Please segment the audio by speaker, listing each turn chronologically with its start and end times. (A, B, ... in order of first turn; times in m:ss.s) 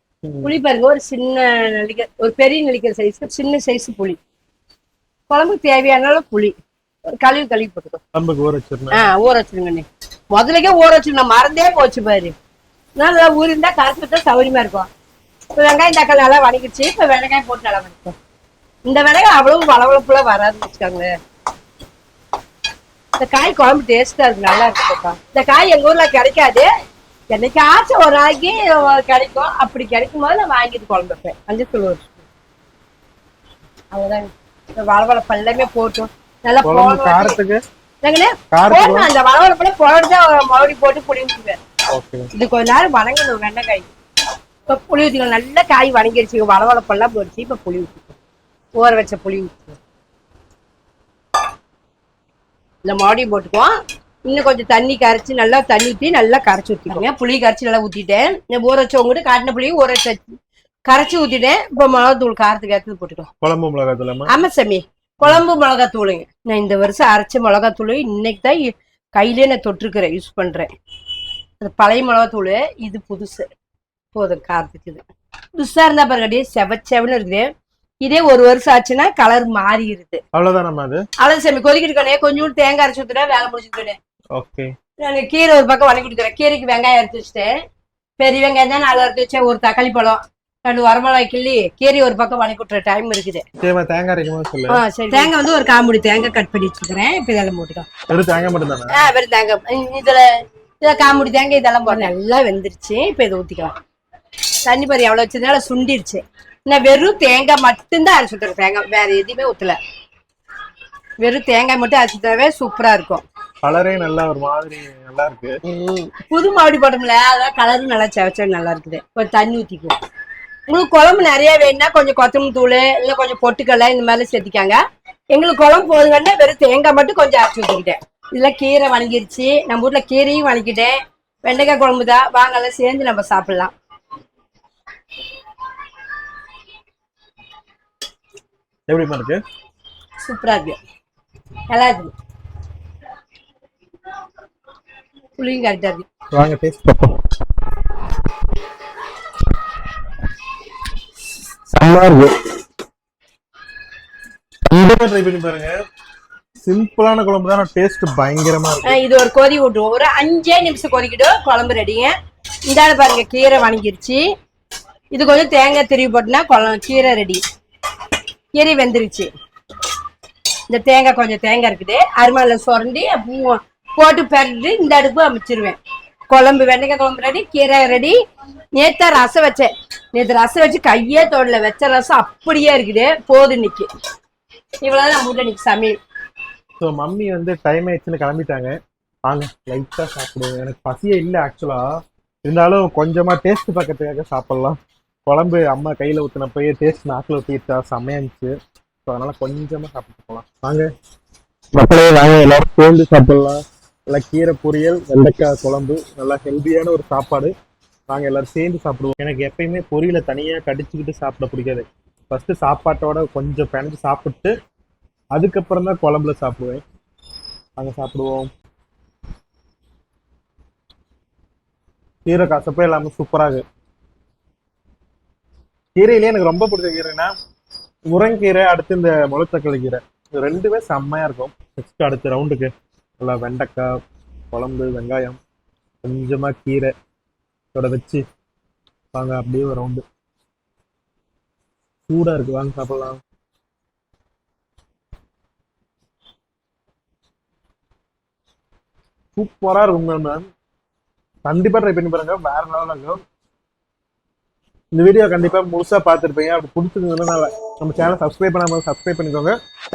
0:00.2-0:00.6 A
0:00.4-0:04.2 B
0:05.3-0:06.5 B
0:07.1-0:08.0 B
0:08.1-0:09.1 A
0:08.9-0:12.3 B
0:13.0-0:14.9 B
0:15.6-0:18.2 B
0:18.8-0:21.1 B
0:23.2-0:26.7 B
0:27.3-0:32.1 B
0:33.9-0:37.4 B
0:36.6-0:37.6 A
0:38.0-0:41.6 B
0:38.5-0:39.1 A
0:41.9-0:42.3 A
0:42.3-0:43.9 B
0:44.7-0:48.2 B
0:48.8-0:49.8 B
0:52.8-0:53.7 B
0:54.3-1:00.3 B
1:00.9-1:03.3 B
1:03.4-1:04.3 A
1:04.3-1:10.7 B
1:11.6-1:13.4 B
1:14.1-1:15.0 B
1:15.6-1:17.5 B
1:18.0-1:20.2 B
1:20.3-1:21.0 A
1:21.2-1:24.0 B
1:24.4-1:24.7 A
1:25.0-1:27.5 B
1:28.2-1:33.4 B
1:33.6-1:35.2 A
1:34.7-1:37.9 B
1:38.1-1:39.0 A
1:38.9-1:40.3 B
1:40.8-1:43.7 B
1:44.6-1:49.8 B
1:51.2-1:53.2 B
1:53.6-1:55.5 A
1:55.6-2:00.0 B
2:00.7-2:04.8 B
2:05.3-2:13.7 B
2:18.9-2:19.4 A
2:20.2-2:20.8 B
2:21.7-2:22.1 B
2:25.4-2:26.0 B
2:26.3-2:27.2 A
2:31.7-2:32.4 A
2:34.7-2:35.7 A
2:36.6-2:39.0 A
2:38.8-2:42.1 B
2:42.7-2:44.2 B
2:45.1-2:47.4 B
2:48.6-2:49.3 B
2:50.7-2:55.8 B
2:56.3-2:58.2 B
2:58.8-3:03.9 B
3:04.8-3:06.0 B
3:06.8-3:08.7 A
3:09.3-3:11.8 A
3:12.4-3:18.5 A
3:19.0-3:20.9 A
3:21.7-3:23.6 A
3:24.1-3:27.5 A
3:28.1-3:34.5 A
3:35.3-3:36.8 A
3:37.8-3:38.5 A
3:42.2-3:43.6 A
3:46.0-3:47.3 A
3:48.1-3:53.9 A
3:54.5-3:55.4 A
3:56.0-3:56.9 A
3:57.7-3:58.2 A
3:59.1-4:00.0 A
4:02.1-4:03.2 A
4:09.4-4:10.4 A
4:11.4-4:13.2 A
4:14.9-4:19.5 A